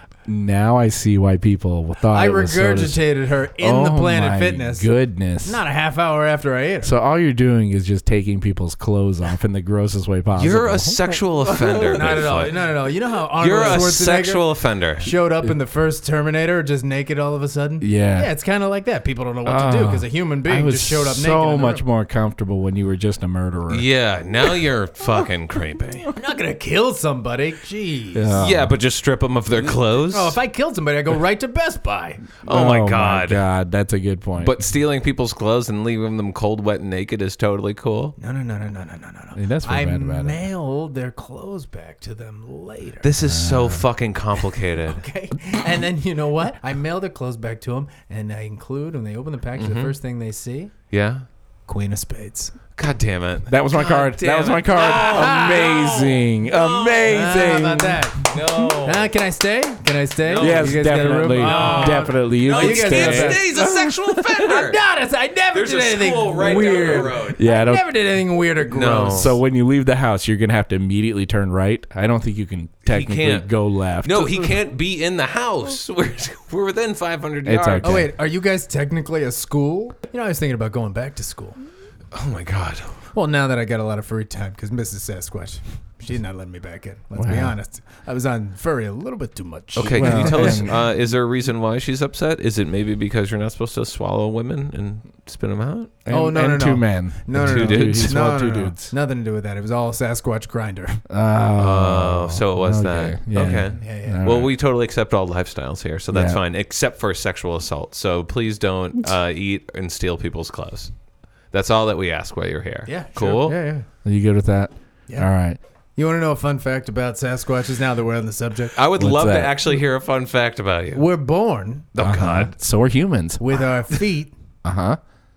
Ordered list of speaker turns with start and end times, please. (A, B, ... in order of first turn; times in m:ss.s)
0:00.3-0:05.6 A
0:02.1-0:04.9 B
0:05.4-0:06.9 B
0:06.8-0:11.1 A
0:10.4-0:12.6 C
0:11.8-0:14.4 B
0:13.4-0:15.1 C
0:15.0-0:21.8 B
0:17.8-0:18.3 A
0:19.4-0:23.9 A
0:23.7-0:26.1 C
0:26.2-0:28.4 B
0:28.2-0:28.8 A
0:28.4-0:30.4 C
0:30.1-0:32.3 B
0:32.4-0:34.6 A
0:32.5-0:33.4 C
0:34.4-0:38.2 C
0:38.2-0:43.1 B
0:39.4-0:40.4 A
0:43.0-0:45.0 C
0:43.2-0:43.9 A
0:44.9-0:50.7 B
0:49.6-0:50.0 C
0:50.9-0:51.2 C
0:51.7-0:52.6 B
0:52.8-0:57.1 C
0:53.5-0:58.1 A
0:54.8-0:55.9 B
0:57.0-1:03.6 B
0:58.3-0:59.1 C
1:00.3-1:04.8 C
1:00.4-1:04.0 A
1:04.3-1:09.4 B
1:05.5-1:07.4 C
1:06.6-1:07.9 A
1:08.7-1:09.4 C
1:09.1-1:14.6 A
1:12.9-1:13.5 C
1:14.0-1:18.1 C
1:17.4-1:18.1 A
1:17.8-1:21.6 B
1:22.1-1:23.0 C
1:23.1-1:30.7 B
1:27.2-1:27.6 A
1:29.8-1:35.9 C
1:29.8-1:30.8 A
1:36.0-1:38.9 A
1:36.1-1:41.0 B
1:37.4-1:38.1 C
1:41.1-1:44.5 A
1:41.6-1:50.9 C
1:43.8-1:44.3 B
1:46.1-1:46.4 A
1:51.5-1:53.6 C
1:52.9-1:53.9 B
1:54.0-1:55.6 A
1:56.0-1:58.8 B
1:58.8-2:01.1 C
1:59.0-1:59.6 A
2:00.9-2:01.9 B
2:02.0-2:02.5 C
2:02.0-2:03.4 A
2:03.4-2:04.3 B
2:04.6-2:05.0 A